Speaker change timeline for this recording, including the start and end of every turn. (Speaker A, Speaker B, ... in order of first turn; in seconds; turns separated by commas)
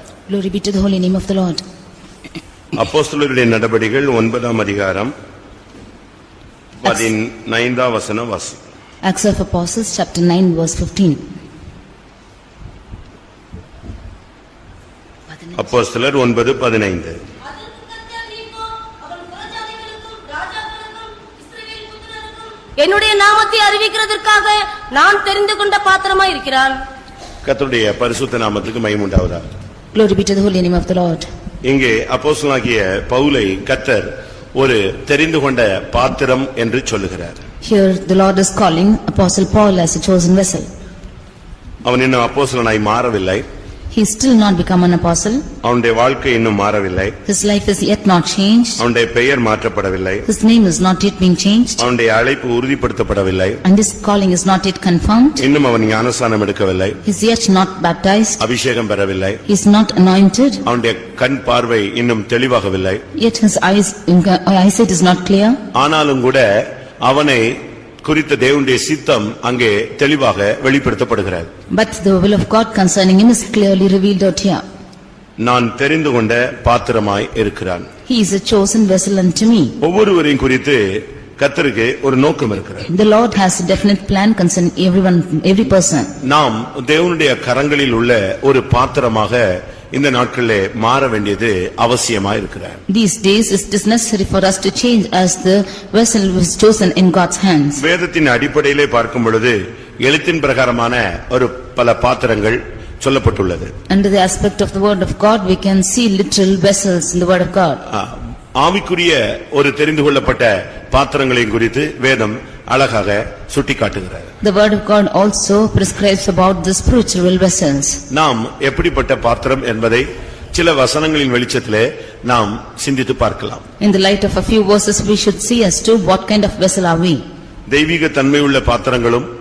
Speaker A: 0.3-1.6, Speaker B: 2.7-5.1, Speaker B: 6.8-8.6, Speaker A: 9.0-11.2, Speaker B: 15.6-17.2, Speaker C: 17.6-26.8, Speaker B: 27.4-29.5, Speaker A: 29.9-31.3, Speaker B: 31.6-37.4, Speaker A: 37.6-40.7, Speaker B: 41.8-43.5, Speaker A: 43.9-45.4, Speaker B: 45.6-47.1, Speaker A: 47.2-48.8, Speaker B: 48.8-50.2, Speaker A: 50.2-51.8, Speaker B: 51.8-53.6, Speaker A: 53.6-55.4, Speaker B: 55.4-57.0, Speaker A: 57.0-58.4, Speaker B: 58.4-59.4, Speaker A: 59.5-60.6, Speaker B: 60.6-63.0, Speaker A: 63.1-65.6, Speaker B: 65.7-71.5, Speaker A: 71.7-74.6, Speaker B: 75.4-77.9, Speaker A: 78.1-79.8, Speaker B: 79.8-82.9, Speaker A: 82.9-86.1, Speaker B: 86.2-92.8, Speaker A: 92.9-97.8, Speaker B: 97.8-103.7, Speaker A: 103.9-107.8, Speaker B: 107.9-114.3, Speaker A: 114.4-118.0, Speaker B: 118.1-123.6, Speaker A: 123.8-127.2, Speaker B: 127.7-129.3